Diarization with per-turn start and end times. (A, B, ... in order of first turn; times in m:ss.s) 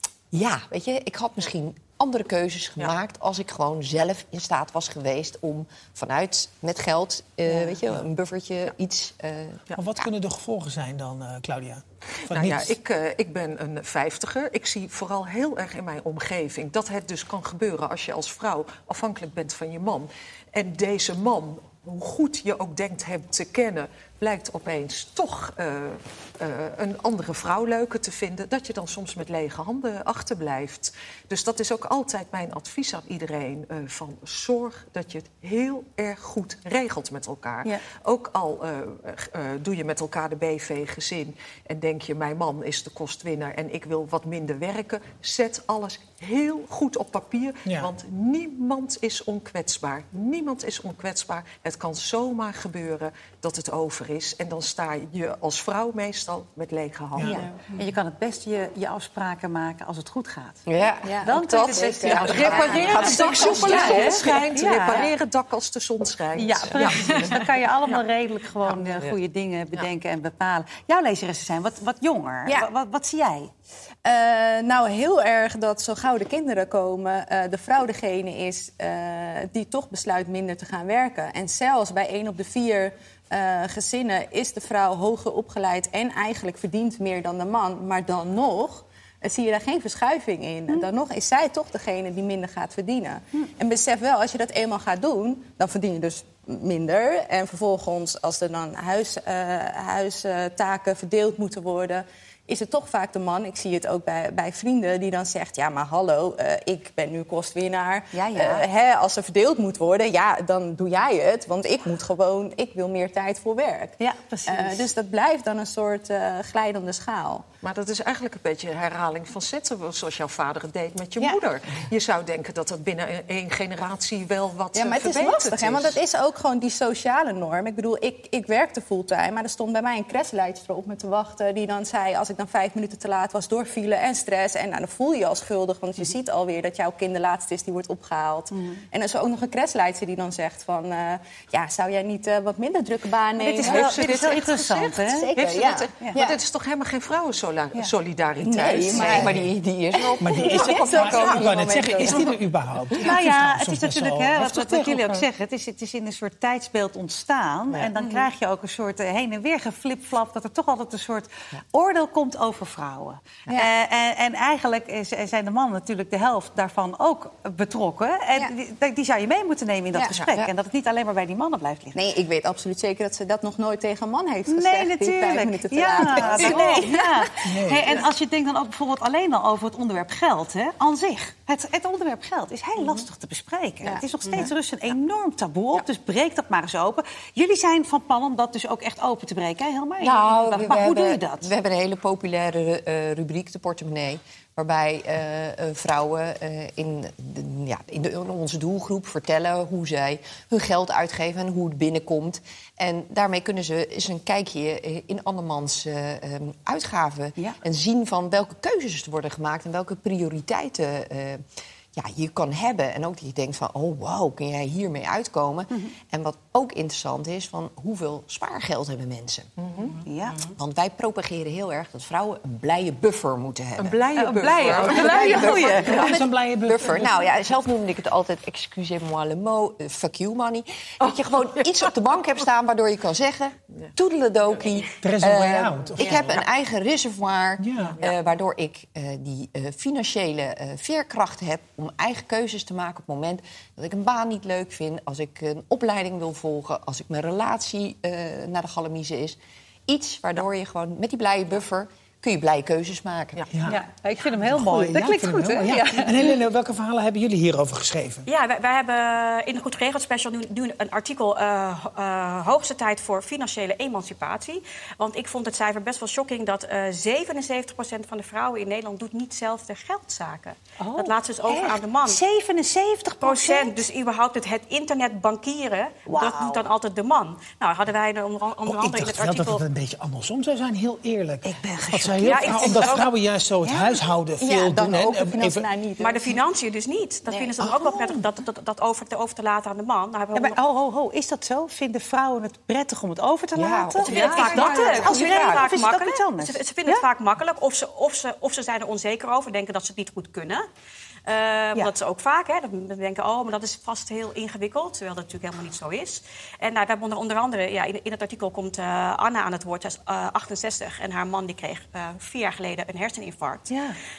0:00.3-0:10.1 A
0:09.7-0:12.7 B
0:12.3-0:57.4 C
0:47.6-0:47.9 B
0:57.2-0:57.4 B
0:57.2-1:00.6 D
1:00.6-1:01.3 A
1:01.0-1:04.1 E
1:01.2-1:05.1 D
1:01.3-1:07.9 C
1:02.0-1:04.2 A
1:06.3-1:13.5 D
1:08.6-1:09.1 C
1:14.0-1:57.4 E
1:48.1-1:48.6 D
1:54.0-1:54.8 D
1:57.6-2:06.0 C
2:04.7-2:24.1 E
2:18.5-2:18.8 D
2:23.4-2:25.4 D
2:23.6-2:29.3 C
2:25.2-2:25.9 A
2:25.4-2:25.8 E
2:28.4-2:29.3 E
2:28.9-2:31.5 A
2:30.2-2:35.3 B
2:30.6-2:32.3 E
2:33.0-2:52.0 D
2:50.0-2:50.5 A
2:51.9-2:57.3 E
2:54.5-3:11.5 D
2:57.4-2:57.9 B
3:03.8-3:04.3 E
3:10.0-3:31.4 A
3:31.9-3:39.5 A
3:39.6-3:40.0 C
3:40.0-3:40.5 D
3:40.5-3:44.0 A
3:43.8-3:46.2 C
3:44.1-3:46.2 D
3:44.9-4:09.4 A
3:45.2-3:47.1 B
3:51.0-3:51.7 C
3:55.0-3:56.3 B
3:57.6-3:58.0 B
4:09.9-4:13.4 A
4:13.4-4:13.6 C
4:13.5-4:13.8 B
4:13.6-4:16.4 D
4:14.3-4:18.3 B
4:18.2-4:32.2 F
4:30.8-4:33.8 D
4:33.2-4:39.6 F
4:36.0-4:36.6 D
4:38.6-4:45.7 B
4:41.4-4:42.3 D
4:42.2-4:43.1 F
4:43.6-4:44.0 D
4:44.4-4:46.4 E
4:46.0-4:50.6 F
4:47.6-4:48.2 D
4:50.3-4:57.0 D
4:53.5-4:55.7 A
4:54.0-5:00.6 F
5:01.2-5:13.7 F
5:13.7-5:14.0 D